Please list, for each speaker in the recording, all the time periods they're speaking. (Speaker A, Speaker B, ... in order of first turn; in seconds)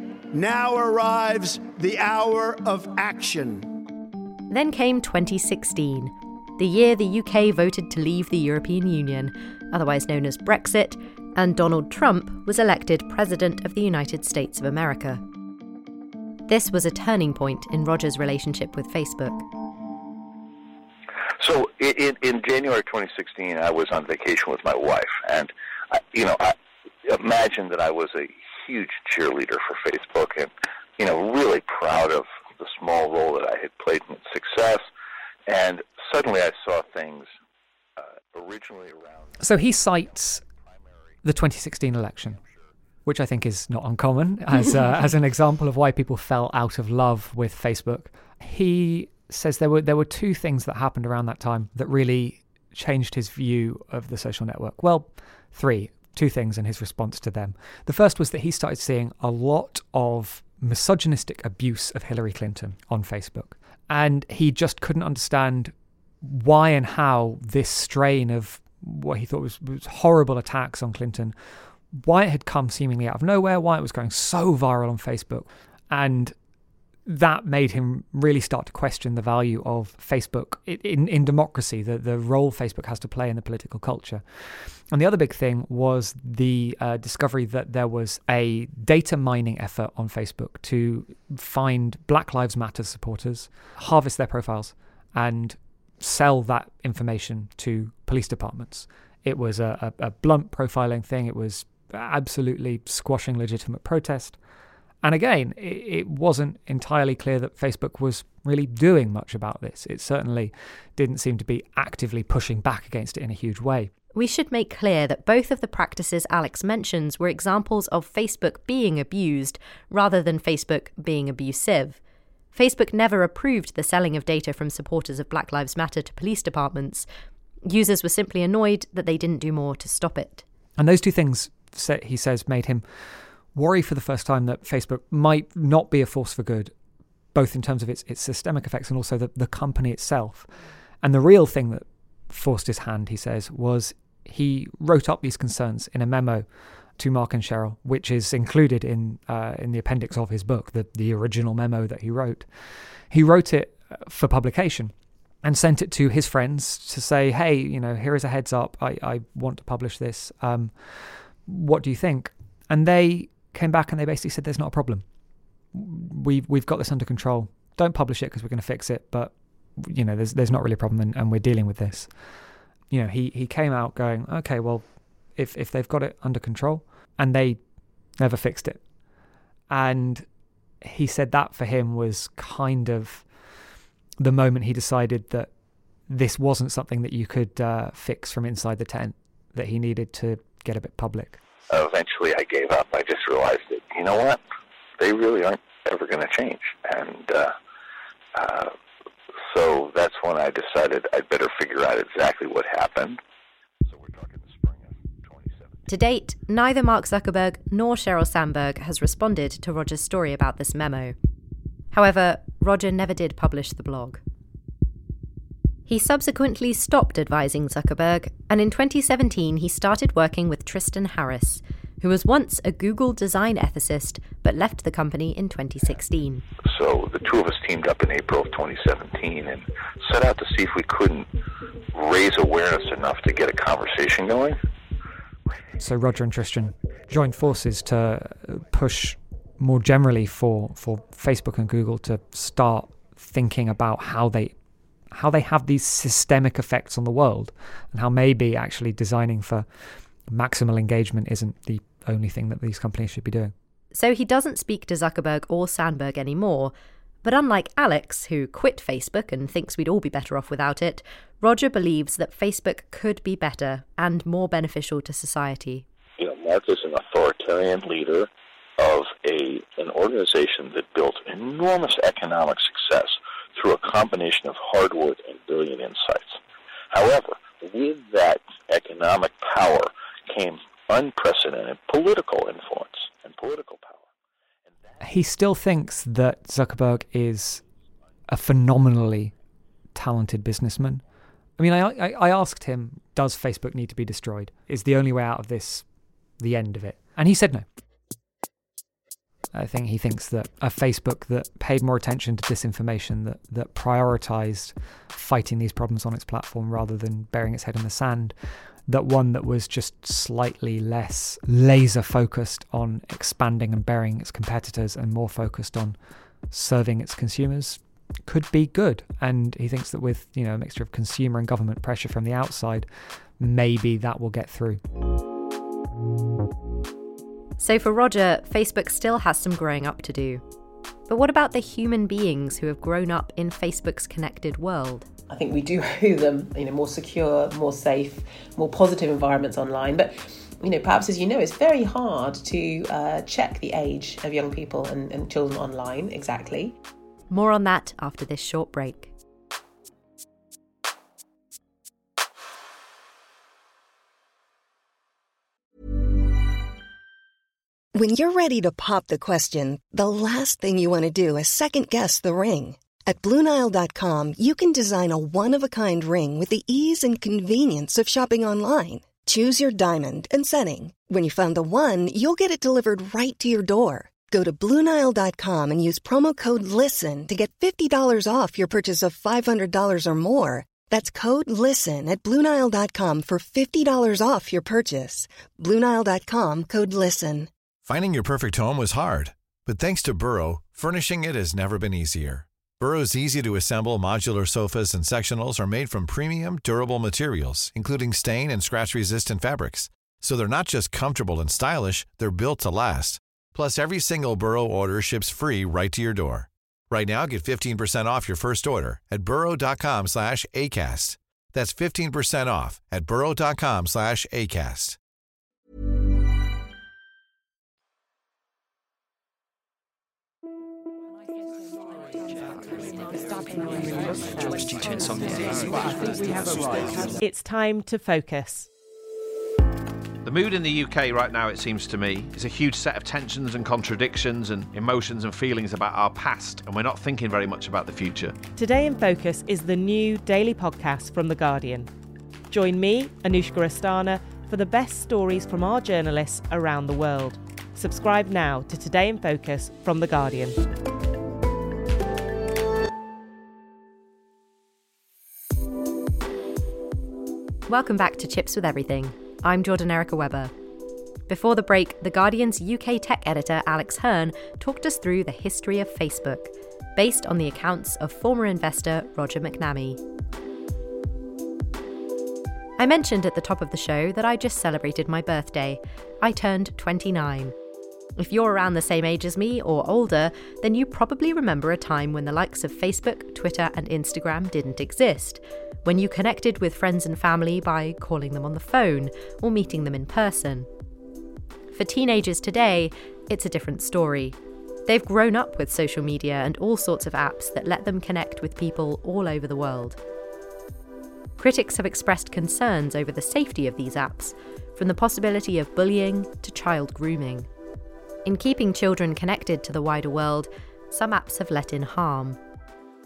Speaker A: 0.3-3.7
Speaker B: 4.5-15.2, 16.5-19.4, 114.1-122.0, 122.5-127.0, 127.6-130.4, 205.9-211.1, 211.9-214.2, 215.9-226.4, 253.9-256.7, 257.2-265.8, 327.6-330.4, 331.1-335.1, 347.3-349.1, 457.7-460.5, 461.3-470.0, 472.8-477.5, 478.2-490.7, 491.7-494.4, 494.9-500.0, 501.4-507.5, 508.2-512.4
Speaker C: 21.4-26.5, 27.1-34.8, 35.5-37.3, 38.0-39.3, 191.7-194.4, 195.0-197.5, 198.3-198.7, 199.5-203.2, 203.9-205.6, 226.7-231.3, 231.9-234.6, 266.2-276.4, 276.9-284.1
Speaker D: 39.4-40.4, 41.2-42.4, 43.0-71.3, 71.9-76.3, 77.0-104.4, 105.0-113.9, 130.8-132.8, 133.5-136.7, 137.3-140.5, 141.0-146.5, 147.0-152.5, 153.1-154.9, 155.4-165.0, 165.7-172.1, 172.9-177.6, 178.2-178.8, 179.7-180.2, 180.8-183.3, 184.2-185.5, 186.1-191.4, 235.8-244.6, 245.1-249.7, 250.3-253.5, 285.0-287.6, 288.3-289.3, 289.9-291.0, 291.6-295.8, 296.4-297.6, 299.5-308.3, 308.9-315.9, 316.5-324.8
Speaker E: 335.3-346.7
Speaker F: 357.9-387.5
Speaker G: 387.8-415.0
Speaker H: 427.2-428.7, 438.5-441.9, 442.5-450.6
Speaker I: 430.2-438.4